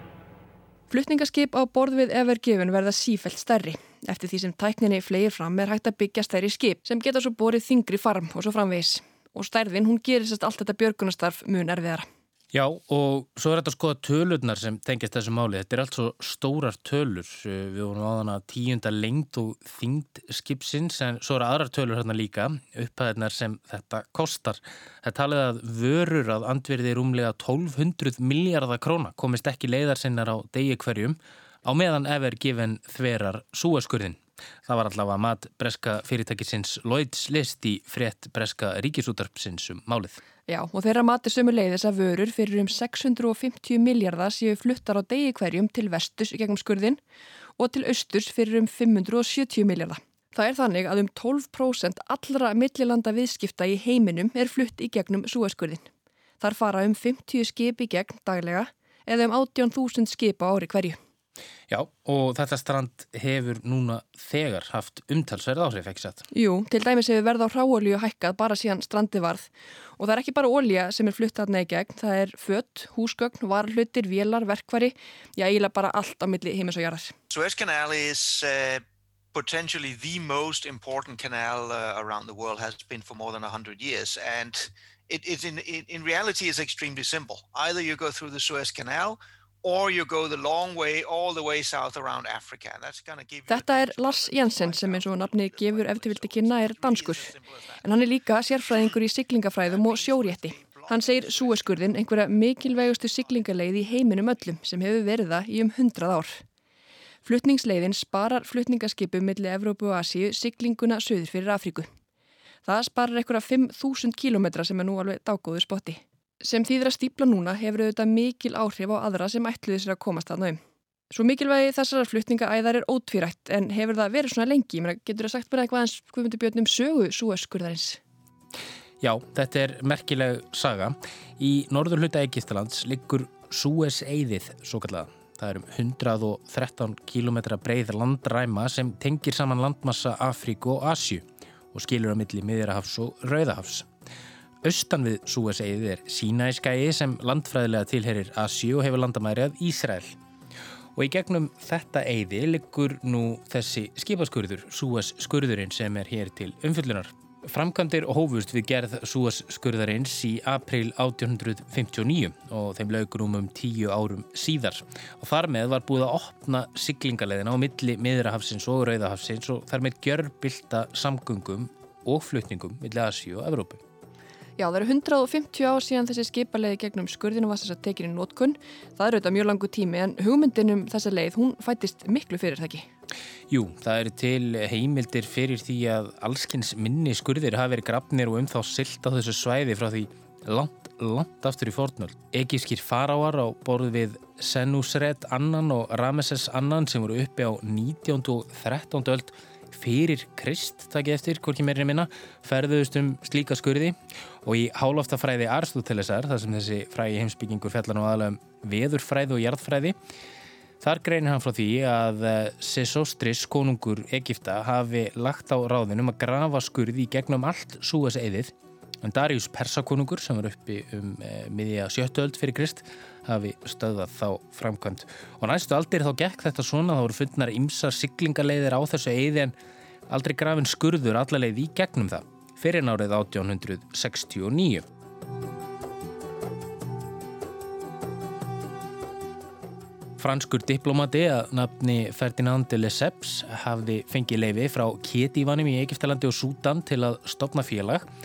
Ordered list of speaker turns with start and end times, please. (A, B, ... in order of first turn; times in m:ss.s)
0:00.9-0:12.0 A
0:12.5-0:40.2 B
0:40.5-0:47.0 A
0:47.6-0:55.8 A
0:56.4-1:01.0 A
1:01.7-1:06.2 B
1:06.3-1:17.1 A
1:17.3-1:37.9 C
1:33.5-1:46.4 A
1:38.6-1:39.0 C
1:39.6-1:44.2 C
1:47.2-1:51.9 A
1:52.6-2:00.6 A
2:01.1-2:08.0 A
2:09.0-2:23.9 B
2:24.6-2:30.2 B
2:31.0-2:53.8 B
2:54.6-3:02.8 A
3:03.5-3:30.0 B
3:30.8-3:49.5 B
3:50.1-3:54.8 B
4:00.2-4:08.0 B